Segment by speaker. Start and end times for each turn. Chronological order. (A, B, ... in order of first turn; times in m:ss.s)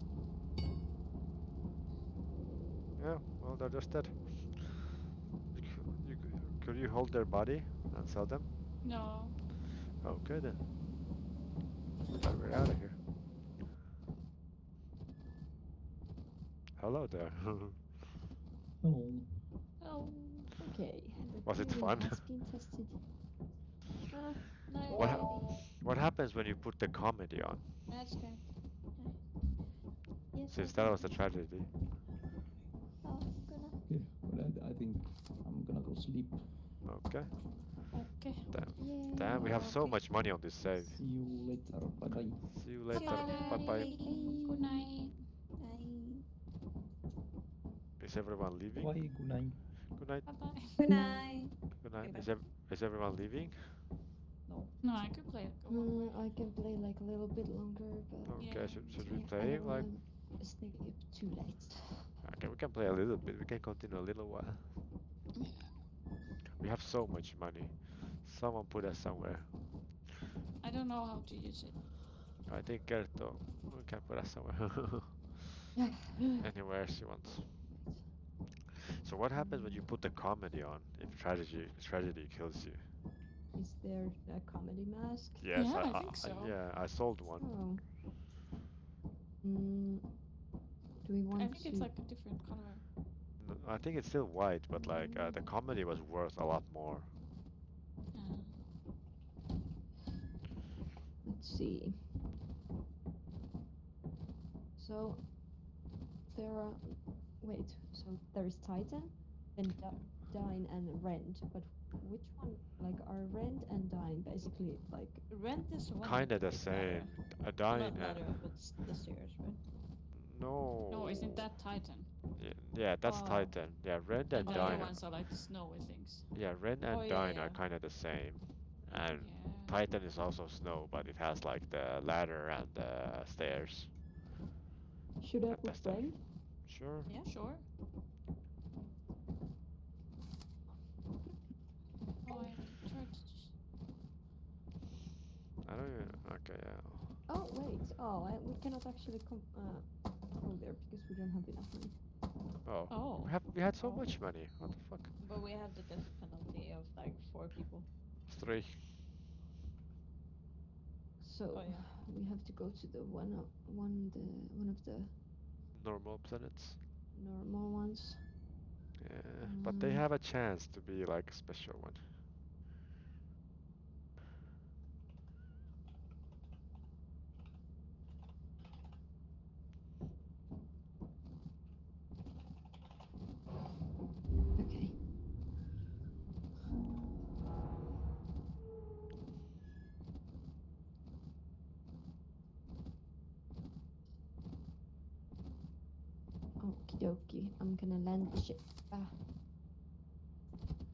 0:03.0-0:04.8 A
0:05.5-0:08.5 A
0:08.8-0:09.4 B
0:10.0-0:10.6 A
0:12.1-0:13.0 A
0:16.8-0:18.0 A
0:18.8-0:19.4 C
0:19.8-0:20.5 B
0:20.6-0:23.0 D
0:21.4-0:22.2 A
0:24.1-0:25.2 D
0:24.6-0:25.6 E
0:24.9-0:27.7 A
0:27.9-0:29.3 E
0:30.3-0:31.2 E
0:30.5-0:31.7 A
0:33.0-0:33.8 E
0:33.8-0:36.5 C
0:36.8-0:37.4 A
0:37.9-0:38.8 B
0:38.5-0:41.0 A
0:38.8-0:39.8 D
0:39.4-0:40.0 B
0:40.9-0:42.5 C
0:42.4-0:43.9 A
0:42.9-0:44.4 E
0:43.0-0:45.2 B
0:44.0-0:44.8 D
0:45.6-0:46.2 E
0:48.0-0:49.0 A
0:48.7-0:49.6 C
0:50.0-0:50.3 A
0:50.3-0:50.8 B
0:50.8-0:52.3 E
0:50.9-0:51.3 D
0:51.7-0:53.8 A
0:54.4-0:54.7 E
0:54.8-0:56.3 B
0:55.7-1:02.1 D
0:58.3-0:59.9 A
0:58.4-0:59.2 B
1:02.2-1:04.7 A
1:05.4-1:05.7 B
1:06.6-1:09.5 A
1:10.6-1:11.8 B
1:12.4-1:15.4 A
1:15.8-1:16.4 D
1:16.4-1:17.6 A
1:17.7-1:18.1 D
1:19.0-1:22.9 A
1:19.4-1:19.8 D
1:23.6-1:25.5 D
1:25.4-1:27.7 A
1:25.5-1:26.6 B
1:27.4-1:27.8 D
1:29.4-1:30.1 D
1:31.0-1:31.9 D
1:31.4-1:32.8 B
1:33.4-1:37.1 A
1:34.7-1:35.4 D
1:38.1-1:38.5 B
1:41.2-1:42.0 D
1:44.8-1:45.3 D
1:46.3-1:55.2 D
1:55.3-1:59.6 E
1:56.0-1:58.4 A
2:00.1-2:01.5 A
2:00.9-2:02.1 B
2:02.4-2:05.0 A
2:03.0-2:03.6 E
2:04.3-2:06.3 B
2:04.4-2:04.9 E
2:06.3-2:13.9 A
2:06.9-2:07.6 E
2:09.1-2:09.8 B
2:15.2-2:16.2 D
2:15.5-2:17.1 A
2:17.0-2:17.3 E
2:17.2-2:17.6 B
2:22.2-2:23.5 B
2:25.6-2:27.1 A
2:27.3-2:32.0 D
2:32.6-2:35.2 A
2:32.9-2:33.4 B
2:33.8-2:34.1 E
2:35.2-2:37.8 E
2:38.3-2:38.8 A
2:41.2-2:45.1 D
2:41.5-2:41.9 E
2:45.7-2:46.8 A
2:47.1-2:48.2 D
2:49.0-2:52.1 A
2:49.4-2:50.0 D
3:04.6-3:05.0 D
3:16.6-3:19.2 D